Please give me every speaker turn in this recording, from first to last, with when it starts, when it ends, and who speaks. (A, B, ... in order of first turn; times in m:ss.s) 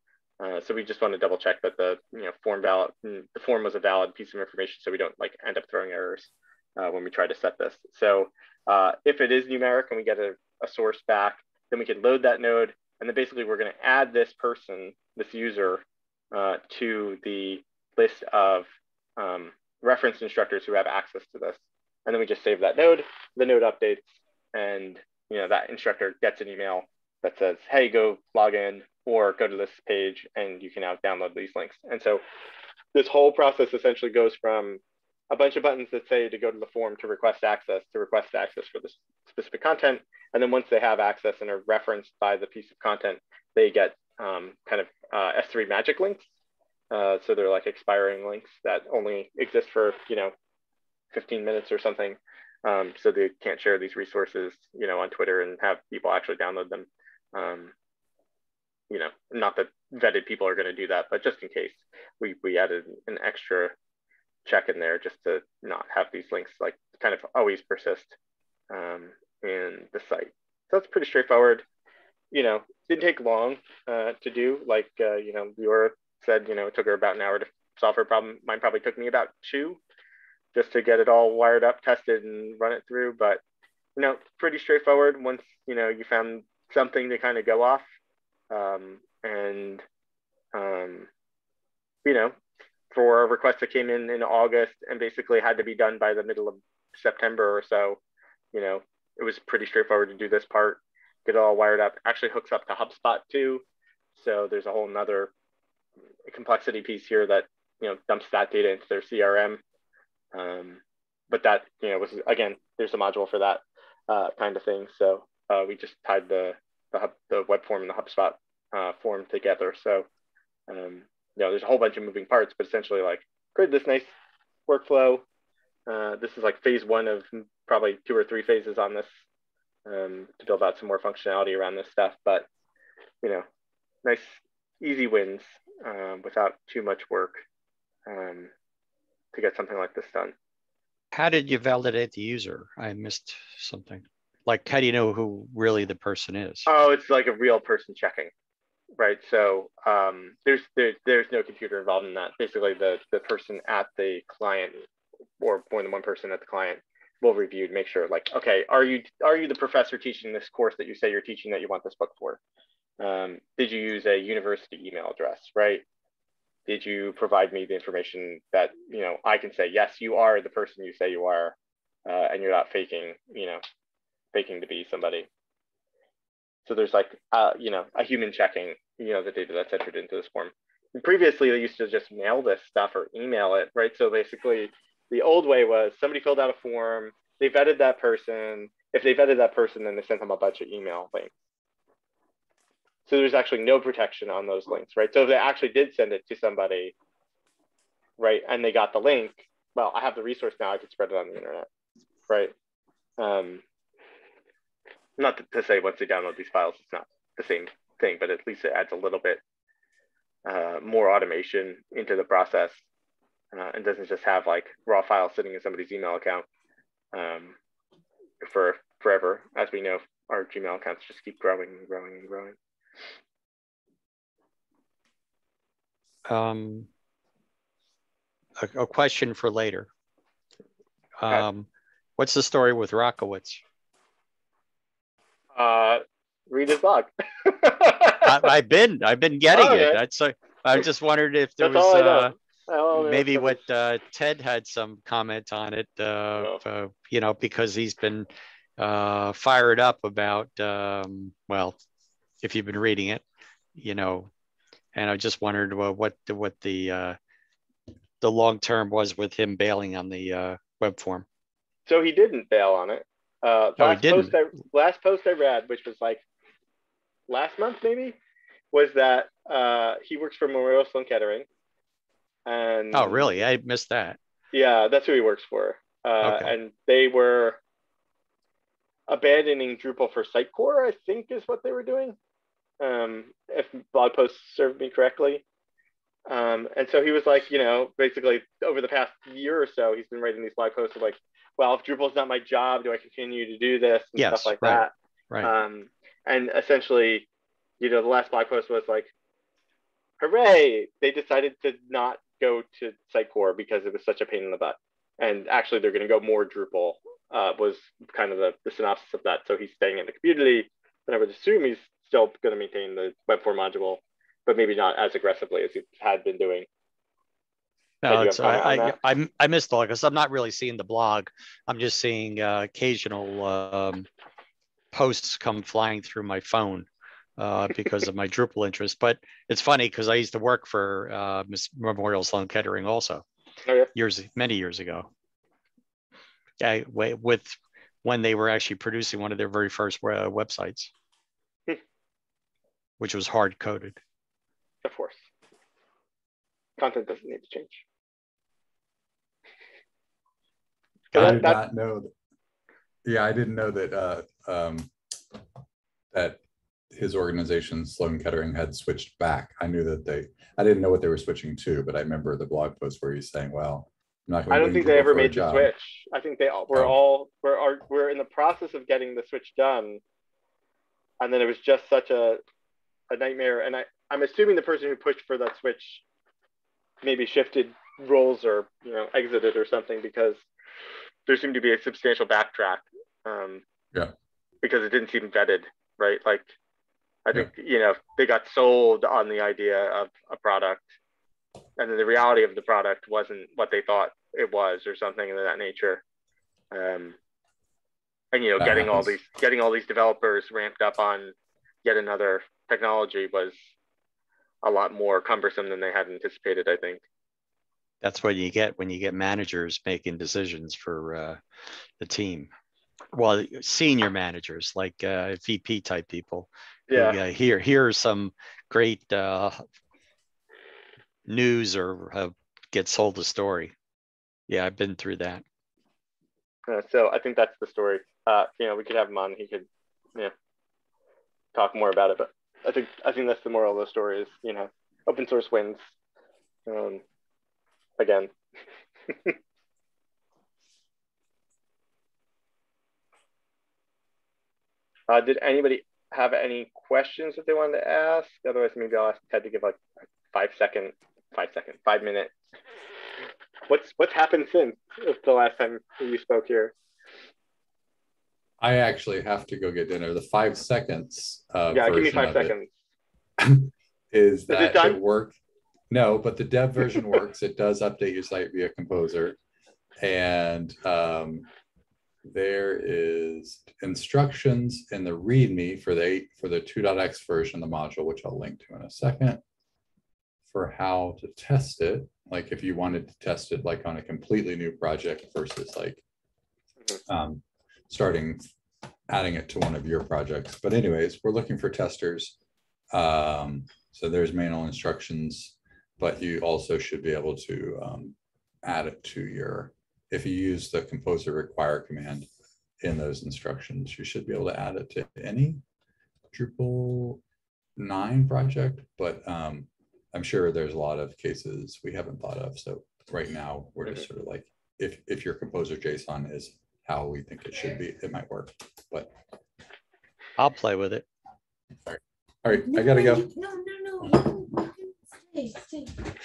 0:00.4-0:18.7 A
0:19.2-0:32.2 A
0:32.9-0:46.2 A
0:46.9-0:50.3 A
0:51.1-0:57.7 A
0:58.9-1:03.7 A
1:04.5-1:08.2 A
1:08.7-1:11.6 A
1:12.3-1:19.8 A
1:20.5-1:23.4 A
1:24.0-1:27.8 A
1:28.5-1:29.8 A
1:30.5-1:31.1 A
1:32.0-1:32.4 A
1:32.9-1:38.0 A
1:38.5-1:43.6 A
1:44.2-1:45.3 A
1:46.3-1:49.6 A
1:50.3-2:00.1 A
2:00.7-2:04.1 A
2:04.7-2:05.2 A
2:05.9-2:09.1 A
2:09.9-2:12.5 A
2:14.0-2:17.4 A
2:18.1-2:18.5 A
2:19.3-2:20.3 A
2:21.1-2:26.7 B
2:26.7-2:28.3 A
2:29.0-2:34.8 A
2:35.4-2:42.4 A
2:43.0-2:45.8 A
2:46.7-2:53.6 A
2:54.3-2:55.3 A
2:56.7-3:11.3 A
3:13.1-3:16.9 A
3:18.2-3:21.7 A
3:22.3-3:22.5 A
3:23.2-3:23.6 A
3:25.2-3:29.4 A
3:30.4-3:32.8 A
3:33.5-3:36.5 A
3:37.1-3:37.6 A
3:38.4-3:42.6 A
3:46.3-3:46.9 B
3:48.6-3:49.9 B
3:51.2-3:53.6 B
3:55.6-3:58.5 A
3:58.2-4:02.3 B
3:59.5-4:00.0 A
4:01.6-4:03.6 A
4:03.0-4:11.8 B
4:12.4-4:13.2 B
4:13.8-4:14.3 B
4:14.9-4:17.2 B
4:18.2-4:21.3 B
4:21.9-4:26.2 A
4:23.8-4:24.3 B
4:27.3-4:28.2 A
4:28.7-4:31.5 A
4:32.5-4:33.3 A
4:32.9-4:34.2 B
4:34.5-4:37.6 A
4:36.2-4:36.6 B
4:39.1-4:42.2 A
4:42.8-4:45.4 A
4:46.3-4:57.3 A
4:54.2-4:55.5 B
4:57.8-4:59.1 A
5:00.2-5:16.7 A
5:18.0-5:24.1 B
5:18.1-5:19.0 A
5:24.9-5:33.2 B
5:34.0-5:35.1 B
5:36.6-5:40.9 B
5:43.0-5:44.0 B
5:44.8-5:45.2 A
5:46.8-5:47.8 A
5:51.1-5:51.6 A
5:51.1-5:52.1 C
5:51.2-5:51.4 B
5:53.0-5:54.9 C
5:56.1-5:56.4 C
5:56.9-6:05.7 C
6:04.5-6:10.0 A
6:11.2-6:12.4 A
6:13.1-6:16.0 A
6:17.0-6:20.4 A
6:21.3-6:23.6 A
6:24.6-6:26.5 A
6:27.2-6:30.9 A
6:31.8-6:36.0 A
6:36.7-6:37.2 A
6:38.3-6:43.6 A
6:38.6-6:39.2 C
6:44.6-6:47.0 A
6:48.0-6:51.4 B
6:52.0-6:52.5 B
6:53.1-6:59.6 B
6:56.9-6:57.2 A
7:01.3-7:03.7 B
7:04.5-7:05.4 B
7:06.7-7:10.3 A
7:11.6-7:15.8 A
7:16.7-7:17.0 A
7:18.0-7:18.3 A
7:19.1-7:19.4 A
7:25.1-7:29.8 A
7:30.3-7:32.3 A
7:33.7-7:36.7 A
7:38.6-7:42.5 C
7:41.7-7:42.7 A
7:43.4-7:45.4 C
7:44.5-7:45.0 A
7:45.9-7:49.4 C
7:50.0-7:51.5 C
7:52.2-7:59.4 C
8:00.5-8:06.0 C
8:07.1-8:08.5 C
8:09.1-8:12.4 C
8:12.9-8:22.3 C
8:22.8-8:25.6 C
8:26.3-8:27.2 C
8:27.8-8:39.2 C
8:40.4-8:41.1 B
8:41.9-8:43.3 C
8:42.6-8:46.0 D